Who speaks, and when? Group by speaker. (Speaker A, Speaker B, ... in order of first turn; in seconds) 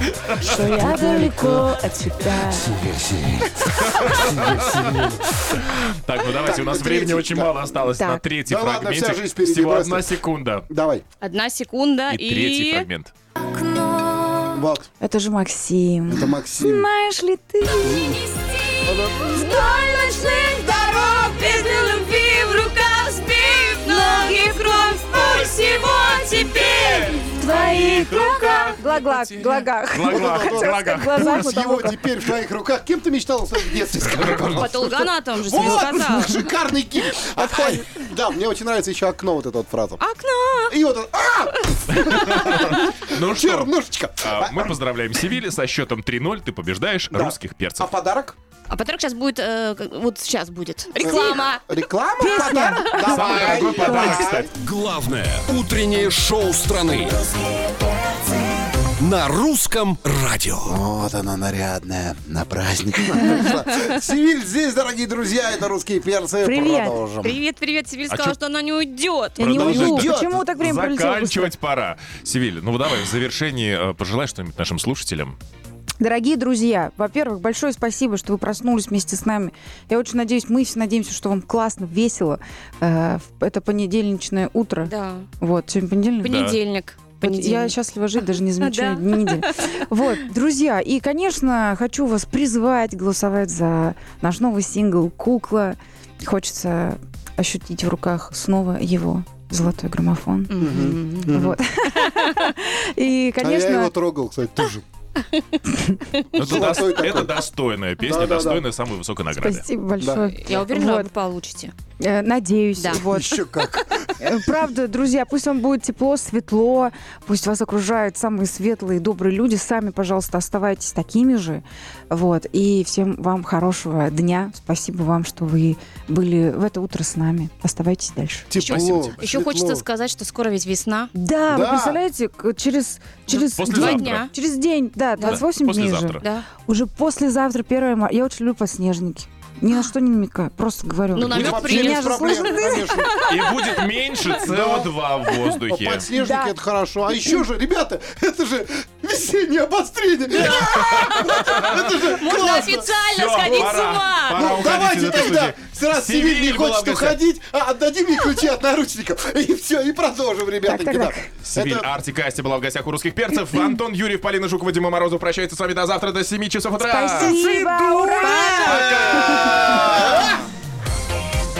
Speaker A: 0.2-0.8, 3.7-10.7, 12.1-13.1, 26.7-31.5, 34.2-34.6, 42.1-47.9, 53.1-54.5, 68.1-68.4, 69.4-75.4, 86.3-86.6, 106.3-109.7, 128.7-129.2, 133.4-134.3, 135.3-136.3, 143.2-146.1, 150.6-151.7, 153.1-157.2, 161.4-170.3
Speaker B: 0.4-2.7, 8.0-8.2, 15.0-18.2, 19.2-20.9, 23.9-25.0, 27.2-32.0, 52.2-54.3, 66.4-67.0, 69.4-71.5, 76.0-86.5, 87.2-100.5, 101.3-103.9, 109.4-111.1, 112.0-113.4, 114.2-128.8, 131.2-143.1, 146.2-146.6, 160.7-161.3, 166.8-169.8
Speaker C: 0.6-1.7, 2.6-5.2, 6.4-7.6, 8.5-10.1, 10.7-11.0, 14.5-14.9, 16.1-16.9, 18.9-19.3, 30.1-40.0, 40.7-44.8, 47.1-48.4, 51.0-54.5, 60.6-67.4, 69.5-70.3, 100.6-101.6, 103.4-104.8, 106.4-107.4, 108.0-108.7, 110.0-110.3, 112.9-114.3, 128.5-129.8, 131.5-132.0, 141.3-143.1, 144.4-144.9, 145.7-152.9, 154.3-161.9, 168.6-170.2
Speaker D: 11.2-12.9, 13.8-14.4, 17.9-19.4, 20.4-27.4, 34.4-36.4, 37.2-38.0, 40.0-40.8, 48.7-51.7, 52.4-54.1, 67.2-69.5, 84.8-85.3, 86.2-89.8, 100.5-101.3, 102.1-102.3, 110.3-111.7, 128.7-131.1, 133.3-134.3, 135.2-135.4, 141.1-143.7, 150.5-151.7, 152.2-154.6, 168.2-169.8
Speaker E: 54.5-57.2, 59.0-60.8